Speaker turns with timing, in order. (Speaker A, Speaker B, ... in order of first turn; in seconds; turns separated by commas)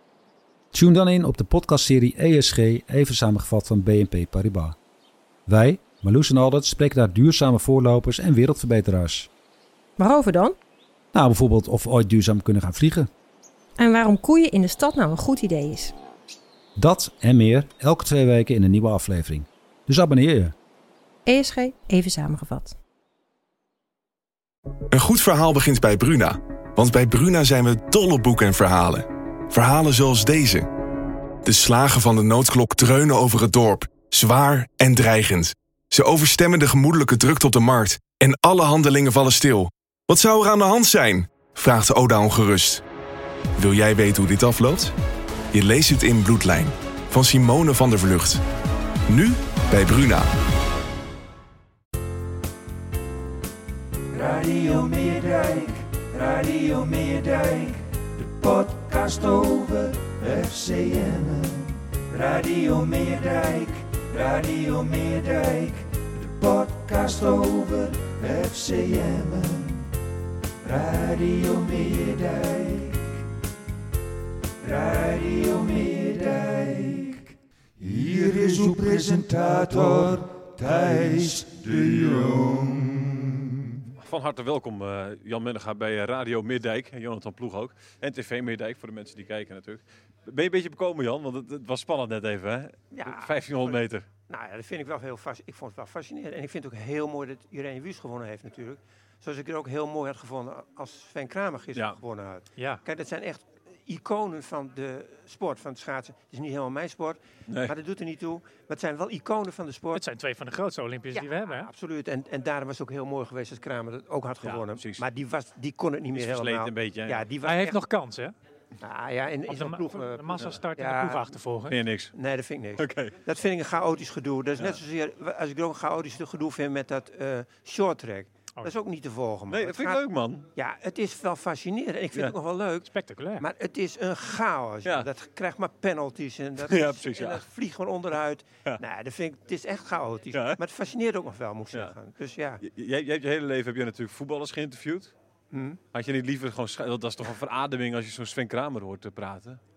Speaker A: 0.7-4.8, Speaker A: 5.5-9.3, Speaker B: 10.0-10.6, Speaker A: 11.1-13.1, Speaker B: 13.8-15.9, Speaker A: 16.8-20.5, Speaker B: 21.2-22.8, Speaker C: 24.9-30.7, Speaker C: 31.4-42.8, Speaker C: 43.6-44.9, Speaker C: 45.5-48.4, Speaker C: 49.1-50.3, Speaker D: 54.1-69.9, Speaker D: 70.6-73.2, Speaker D: 74.6-83.7, Speaker E: 84.0-94.0, Speaker F: 92.9-110.0, Speaker G: 102.6-102.8, Speaker E: 107.5-107.7, Speaker G: 109.9-111.7, Speaker F: 111.1-117.8, Speaker E: 114.4-115.0, Speaker E: 116.1-117.3, Speaker G: 117.4-118.3, Speaker F: 118.8-121.3, Speaker G: 119.5-121.8, Speaker E: 121.7-122.2, Speaker F: 122.1-130.0, Speaker E: 122.8-123.1, Speaker E: 129.5-130.5, Speaker F: 130.5-142.6, Speaker G: 132.8-133.5, Speaker E: 136.6-137.4, Speaker E: 140.3-140.6, Speaker E: 142.6-145.1, Speaker F: 145.5-145.8, Speaker E: 145.9-149.6